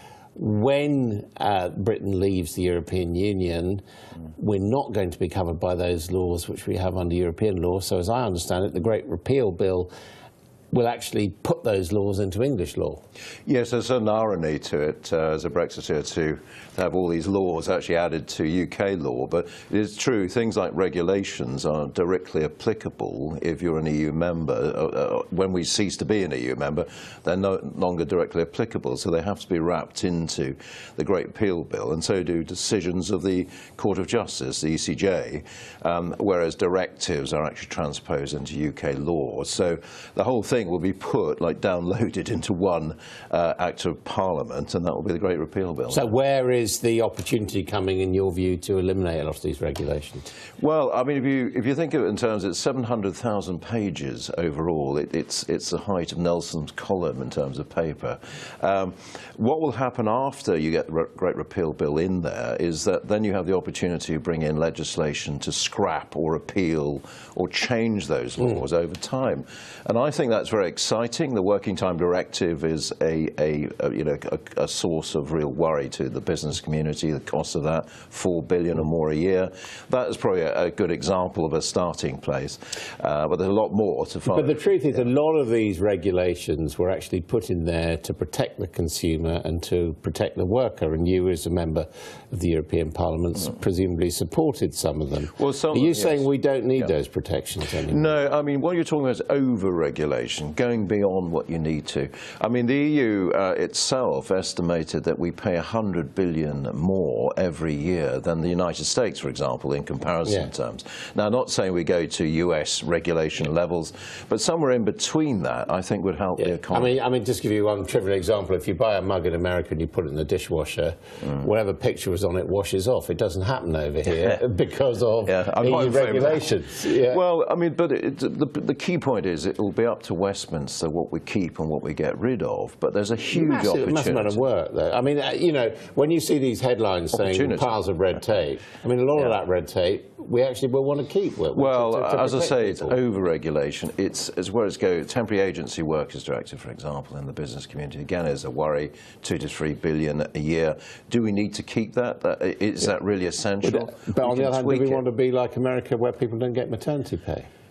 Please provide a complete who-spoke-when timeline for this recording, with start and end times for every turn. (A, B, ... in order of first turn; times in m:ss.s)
0:00.4-0:03.8 A
0:04.4-0:09.9 A
0:10.7-0:13.0 A
0:13.4-0:46.1 B
0:45.9-0:50.3 A
0:50.6-1:25.0 B
1:24.3-1:38.1 A
1:35.3-1:36.9 B
1:37.8-1:57.0 B
1:50.2-1:50.5 A
1:56.4-2:07.2 A
2:04.1-2:04.4 B
2:05.2-2:14.4 B
2:13.3-2:23.0 A
2:17.1-2:17.8 B
2:21.5-2:35.0 B
2:33.6-2:37.5 A